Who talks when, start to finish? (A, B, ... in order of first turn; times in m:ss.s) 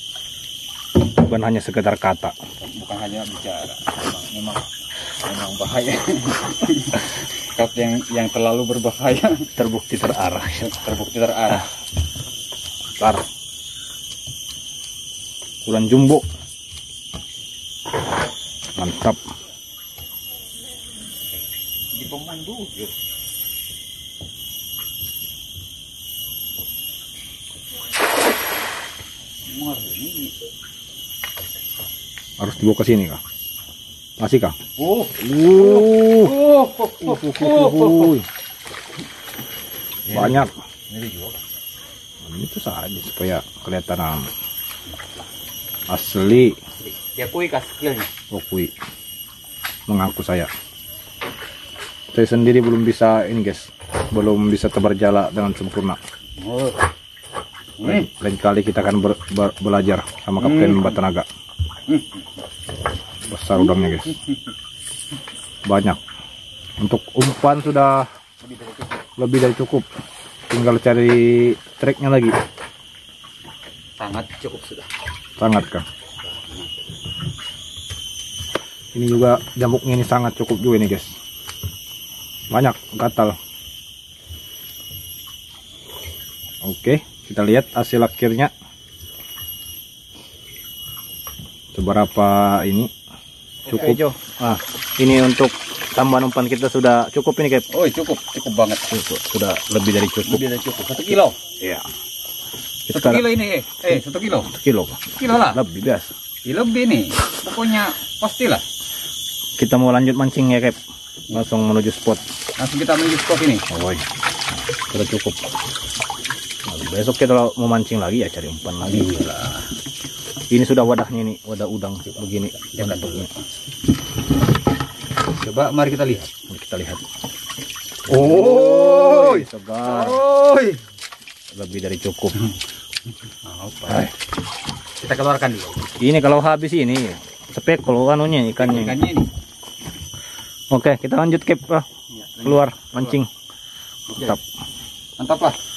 0:01.1-0:02.4 A
0:02.6-0:04.6 B
0:05.2-0:09.5 B
0:09.6-0:10.8 A
0:10.8-0:11.7 B
0:13.0-0:13.3 A
0:15.6-0:16.3 A
0:18.8-0:19.2 A
0:21.9-0:23.0 B
0:29.5-0:30.4 B
0:32.4-0:33.2 A
0:34.2-0:34.6 A
0:34.8-0:38.2 B
0:35.1-0:36.4 A
0:37.0-0:38.3 A
0:40.1-0:41.4 B
0:40.1-0:40.5 A
0:42.2-0:44.3 A
0:44.9-0:45.2 B
0:45.9-0:46.6 A
0:46.8-0:48.1 B
0:48.3-0:48.7 A
0:49.9-0:50.5 A
0:52.1-0:56.0 A
0:56.4-0:56.9 B
0:57.8-0:58.1 B
0:57.8-1:01.3 A
1:00.4-1:01.0 B
1:01.9-1:02.4 B
1:03.3-1:04.2 A
1:03.6-1:04.5 B
1:05.6-1:06.0 A
1:06.8-1:08.1 A
1:08.4-1:09.1 B
1:09.2-1:09.9 A
1:10.5-1:12.4 A
1:14.0-1:14.9 B
1:15.4-1:15.9 A
1:16.2-1:16.9 B
1:18.9-1:21.2 A
1:22.5-1:23.4 A
1:26.6-1:28.5 A
1:31.7-1:32.9 A
1:33.6-1:34.1 B
1:33.7-1:37.7 A
1:37.7-1:39.0 B
1:38.9-1:40.4 A
1:40.2-1:41.4 B
1:41.6-1:41.9 A
1:42.9-1:43.3 A
1:42.9-1:44.6 B
1:44.5-1:46.2 A
1:45.2-1:45.6 B
1:46.4-1:48.7 B
1:49.6-1:50.8 A
1:51.3-1:52.2 A
1:52.6-1:53.7 B
1:53.7-1:54.0 A
1:54.9-1:55.5 A
1:56.6-1:59.1 A
1:58.8-1:59.8 B
2:00.5-2:03.3 A
2:02.1-2:03.4 B
2:05.3-2:06.3 B
2:06.5-2:07.0 A
2:08.1-2:10.2 A
2:08.1-2:10.8 B
2:11.5-2:12.4 A
2:13.4-2:14.1 B
2:15.0-2:15.9 B
2:16.0-2:19.0 A
2:18.6-2:19.3 B
2:20.7-2:21.9 A
2:22.1-2:23.2 B
2:22.4-2:23.3 A
2:24.1-2:24.4 B
2:24.2-2:24.4 A
2:25.2-2:25.6 B